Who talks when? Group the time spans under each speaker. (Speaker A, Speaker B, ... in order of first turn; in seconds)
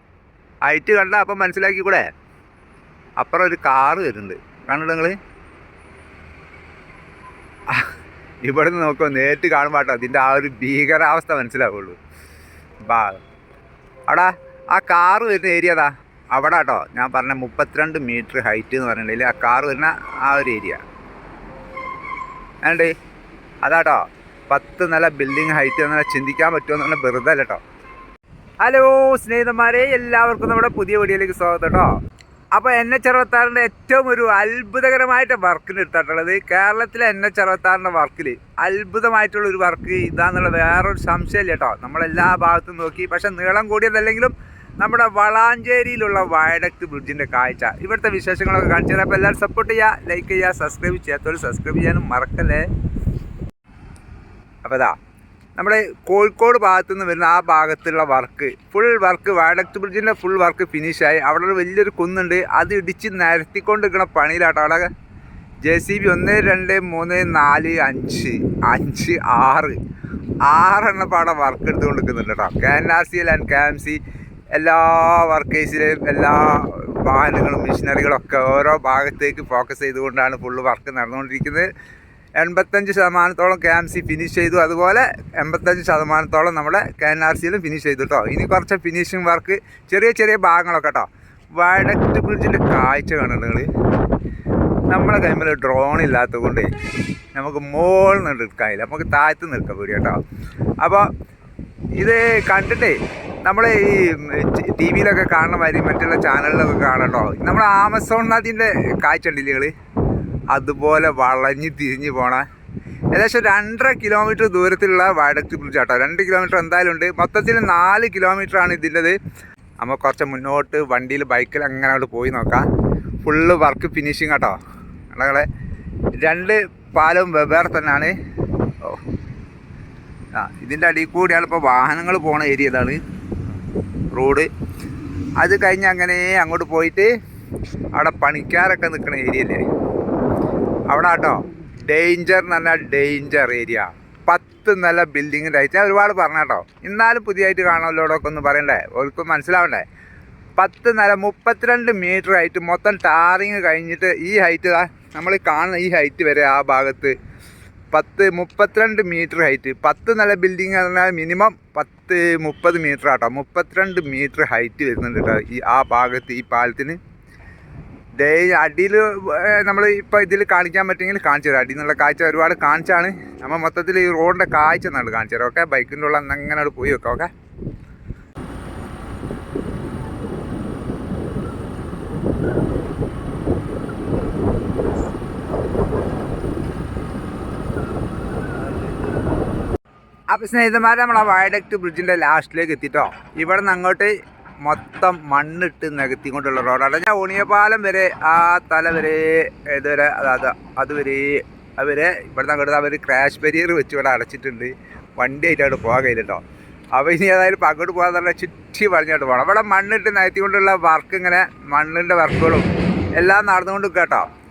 Speaker A: 0.6-2.0, 3.2-5.2, 8.4-12.0, 12.8-13.2, 14.1-20.8, 22.6-22.9, 23.6-27.6, 28.6-31.9, 32.5-52.6, 54.6-54.9, 55.6-64.9, 65.6-69.8, 70.5-74.0, 74.5-81.7, 82.4-93.7, 94.9-96.7, 97.3-100.2, 100.8-101.1, 102.0-109.7, 110.5-112.4, 113.1-119.1, 119.8-122.7, 123.2-124.6, 125.1-125.5, 126.2-128.1, 130.3-133.0, 134.1-134.5, 135.4-137.1, 137.9-139.6, 140.9-149.8, 150.6-157.1, 157.9-167.0, 168.2-177.3, 190.3-206.4, 206.9-214.3